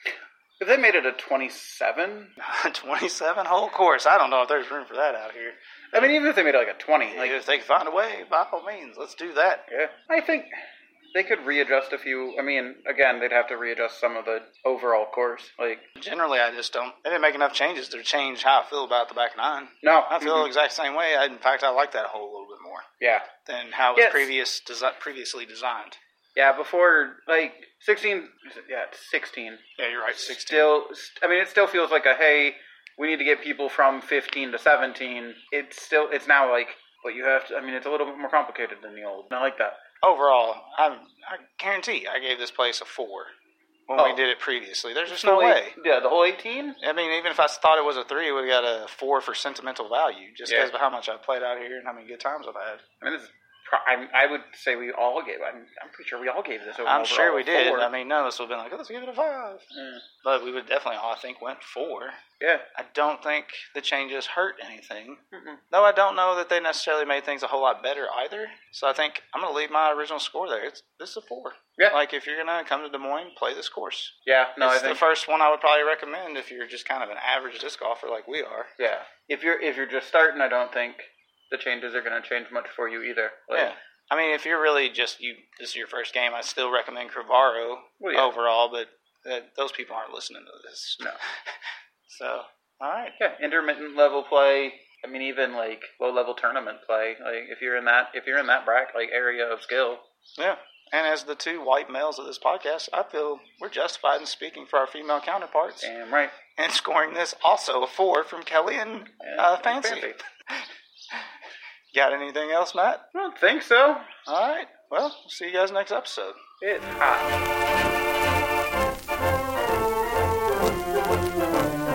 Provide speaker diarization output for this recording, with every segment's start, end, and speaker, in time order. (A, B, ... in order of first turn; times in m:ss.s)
0:00.6-0:02.3 A
0:02.4-0:06.0 B
0:05.9-0:07.4 A
0:07.1-0:09.7 B
0:09.7-0:10.5 A
0:11.1-0:15.9 A
0:16.0-0:22.8 B
0:19.8-0:20.5 A
0:23.0-0:23.3 A
0:23.4-0:26.0 B
0:24.0-0:24.3 A
0:26.3-0:29.6 A
0:29.8-0:30.7 B
0:30.1-0:39.8 A
0:40.0-0:43.3 B
0:43.9-0:45.8 B
0:44.0-0:44.2 A
0:45.1-0:46.8 A
0:46.8-0:52.8 B
0:50.4-0:50.7 A
0:53.0-0:57.9 A
0:56.8-0:59.6 B
0:59.7-1:00.0 A
1:00.2-1:02.2 B
1:02.4-1:02.6 A
1:02.8-1:18.7 B
1:05.3-1:05.6 A
1:14.2-1:15.1 A
1:18.8-1:23.7 A
1:23.5-1:31.2 B
1:28.0-1:28.3 A
1:32.1-1:33.2 B
1:33.2-1:40.0 A
1:40.4-1:45.9 B
1:45.8-1:46.4 A
1:46.6-1:50.6 B
1:49.2-1:50.2 A
1:51.9-1:53.1 B
1:53.1-1:54.1 A
1:54.3-1:56.4 B
1:56.6-1:57.4 A